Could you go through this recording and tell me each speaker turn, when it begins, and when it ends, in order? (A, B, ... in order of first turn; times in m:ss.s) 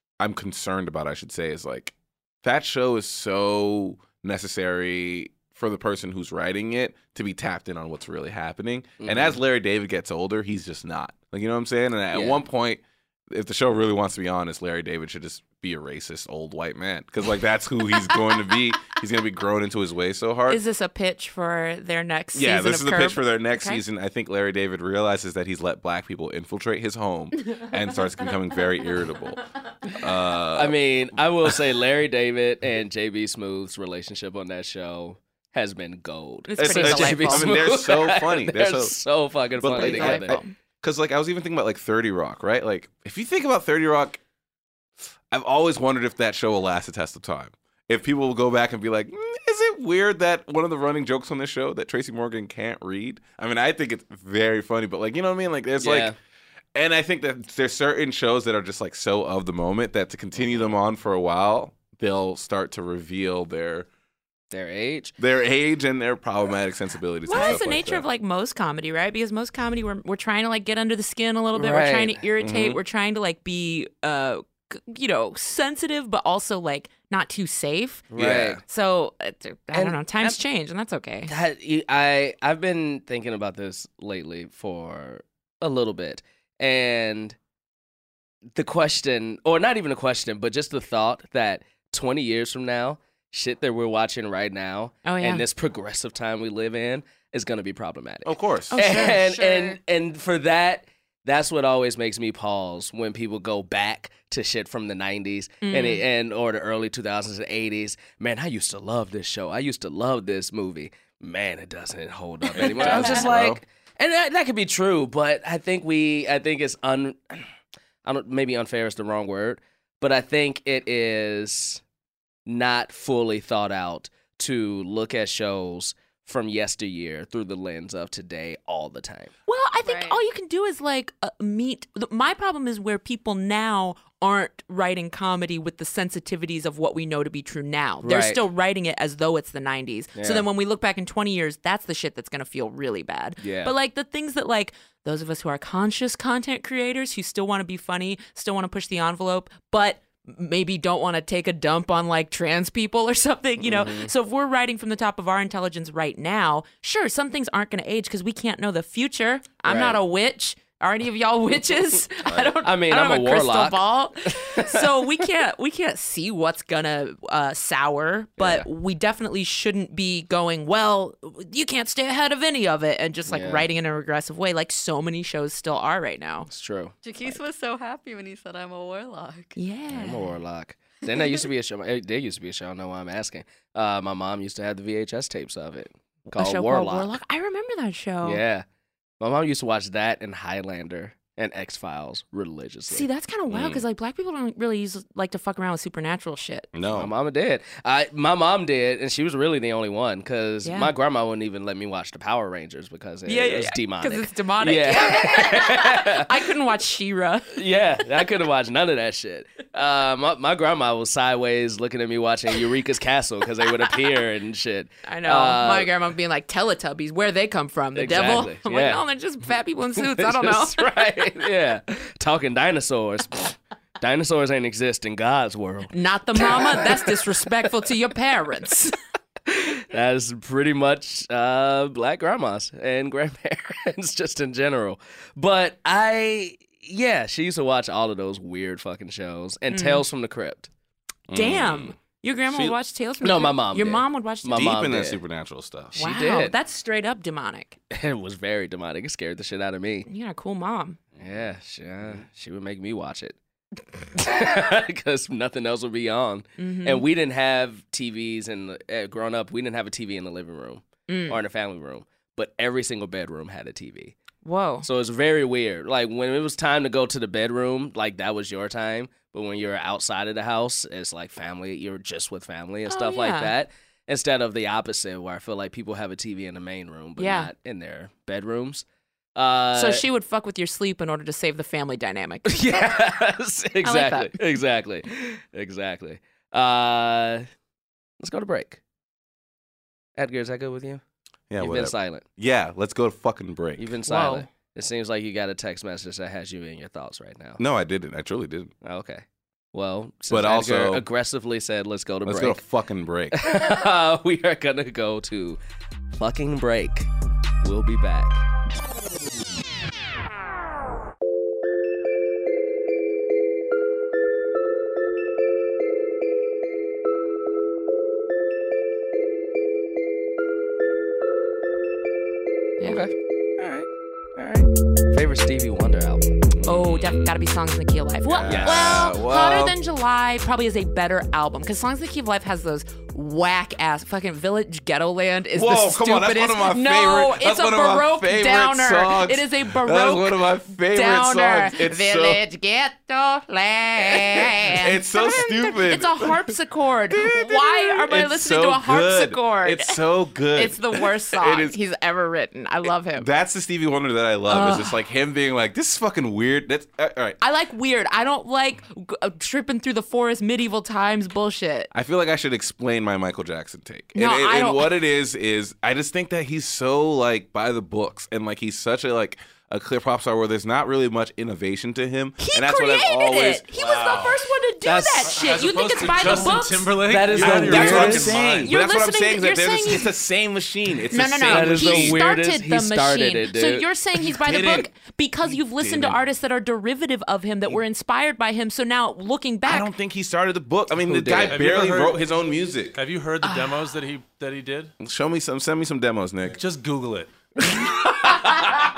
0:00.2-0:20.6 A
0:09.0-0:09.4 B
0:12.1-0:12.4 B
0:20.5-0:23.8 C
0:22.3-0:30.8 A
0:30.6-0:40.4 B
0:36.5-0:37.5 C
0:36.6-0:39.0 A
0:39.6-0:44.2 A
0:39.8-0:40.5 C
0:45.3-0:56.1 A
0:55.8-0:56.2 B
0:56.8-1:03.9 A
1:04.5-1:05.1 B
1:05.2-1:08.0 A
1:07.3-1:18.1 C
1:11.6-1:12.2 B
1:12.4-1:12.8 A
1:18.1-1:18.6 B
1:18.2-1:18.6 A
1:18.7-1:21.3 C
1:19.7-1:20.4 B
1:21.3-1:27.4 B
1:28.6-1:57.4 B
1:35.0-1:35.4 C
1:38.2-1:38.8 A
1:38.7-1:39.8 C
1:45.6-1:46.0 C
1:52.5-1:53.6 A
1:52.6-1:53.3 C
1:58.0-2:01.8 B
2:02.5-2:09.3 B
2:09.5-2:56.5 C
2:09.8-2:10.2 D
2:18.0-2:18.4 B
2:20.2-2:20.5 B
2:23.4-2:23.7 B
2:33.6-2:34.1 B
2:39.7-2:40.0 B
2:42.6-2:44.9 B
2:48.4-2:48.7 B
2:53.3-2:53.7 B
2:56.5-2:57.4 B
2:57.0-2:59.6 D
2:59.6-3:00.4 C
2:59.9-3:07.2 B
3:06.3-3:08.4 C
3:08.2-3:08.6 B
3:09.2-3:13.1 B
3:12.9-3:16.7 C
3:13.5-3:13.8 A
3:16.7-3:17.1 A
3:16.9-3:26.3 B
3:20.6-3:20.9 C
3:23.3-3:27.6 C
3:27.5-3:35.9 B
3:35.1-3:40.9 C
3:38.0-3:39.0 B
3:40.0-3:47.3 B
3:45.9-3:48.9 C
3:49.5-4:00.7 B
3:59.7-4:00.0 C
4:01.3-4:02.0 A
4:01.3-4:04.7 C
4:02.5-4:02.8 A
4:03.2-4:05.2 B
4:04.5-4:06.1 A
4:06.0-4:07.8 C
4:06.0-4:06.5 B
4:07.9-4:10.1 B
4:10.1-4:11.0 C
4:11.2-4:13.4 B
4:14.2-4:24.1 B
4:16.6-4:17.1 C
4:21.1-4:21.4 C
4:24.4-4:24.9 C
4:24.8-4:38.8 B
4:32.9-4:33.5 C
4:37.2-4:37.5 C
4:39.4-4:40.0 B
4:39.7-4:42.6 C
4:42.5-4:47.5 B
4:43.8-4:44.4 C
4:48.2-4:48.8 B
4:50.2-4:51.0 B
4:51.5-4:53.9 A
4:51.6-4:52.2 B
4:53.8-4:57.6 B
4:54.1-4:54.5 C
4:57.6-4:58.7 A
4:58.8-5:02.6 B
5:00.3-5:01.0 A
5:02.2-5:03.4 A
5:03.3-5:05.6 B
5:06.1-5:07.1 B
5:07.6-5:08.4 B
5:22.8-5:26.3 B
5:26.5-5:27.4 A
5:26.6-5:50.0 C
5:28.2-5:29.8 A
5:28.5-5:29.1 B
5:35.6-5:42.4 A
5:44.0-5:46.5 A
5:47.1-5:51.8 A
5:50.5-5:53.3 C
5:53.2-5:57.4 A
5:54.5-5:55.0 C
5:57.4-6:01.9 C
6:01.9-6:13.7 A
6:04.2-6:05.0 C
6:12.4-6:17.0 C
6:13.7-6:14.4 E
6:14.8-6:15.6 B
6:15.3-6:18.7 E
6:17.0-6:18.5 B
6:17.4-6:22.2 A
6:18.6-6:20.1 C
6:21.1-6:29.9 C
6:21.4-6:23.9 B
6:24.2-6:24.9 A
6:25.5-6:26.2 A
6:29.6-6:33.0 A
6:31.0-6:31.7 B
6:31.4-6:32.3 E
6:32.9-6:34.9 E
6:33.4-6:33.7 C
6:35.0-6:36.6 A
6:36.5-6:37.3 E
6:38.2-6:38.8 C